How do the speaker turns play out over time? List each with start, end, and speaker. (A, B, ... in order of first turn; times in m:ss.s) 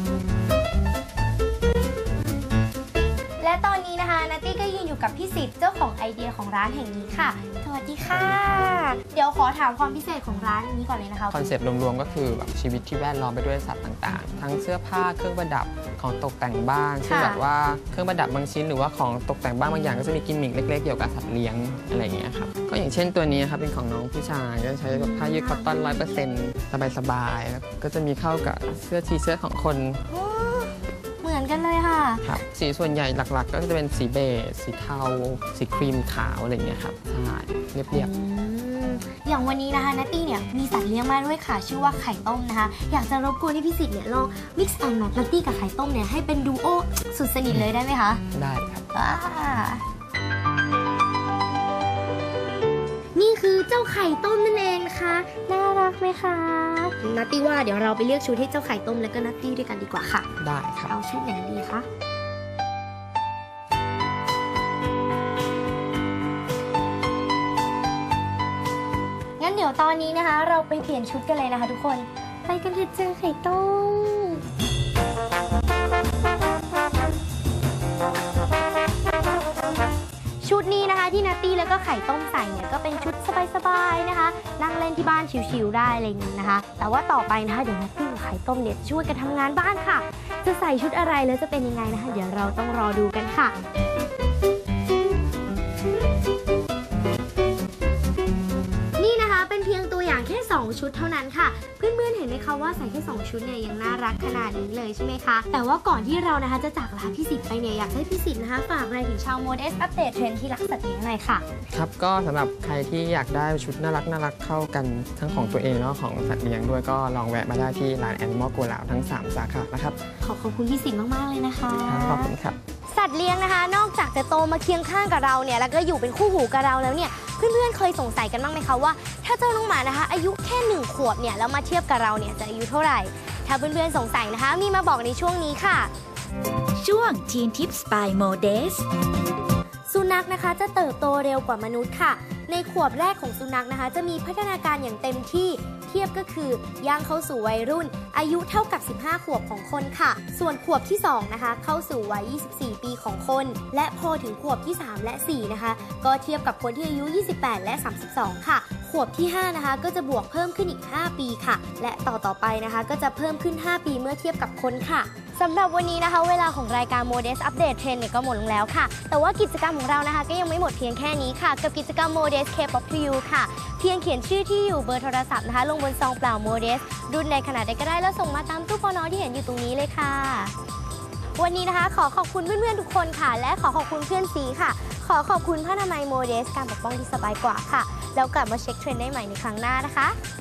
0:03.4-0:11.4 A
0:08.0-0:08.8 B
0:11.3-0:30.0 B
0:17.0-0:17.4 A
0:24.9-0:26.2 A
0:30.1-0:32.3 A
0:32.2-0:38.1 B
0:37.9-0:48.2 A
0:48.3-0:48.9 B
0:48.9-0:49.8 A
0:53.1-1:00.3 A
1:00.4-1:00.9 B
1:00.8-1:01.8 A
1:09.4-1:14.4 A
1:20.4-1:33.6 A
1:39.0-1:51.4 A
1:51.7-2:00.0 B
2:00.2-2:02.3 A
2:01.8-2:02.6 B
2:02.9-2:15.9 A
2:16.8-2:18.8 C
2:19.9-3:00.5 A
3:01.4-3:10.2 A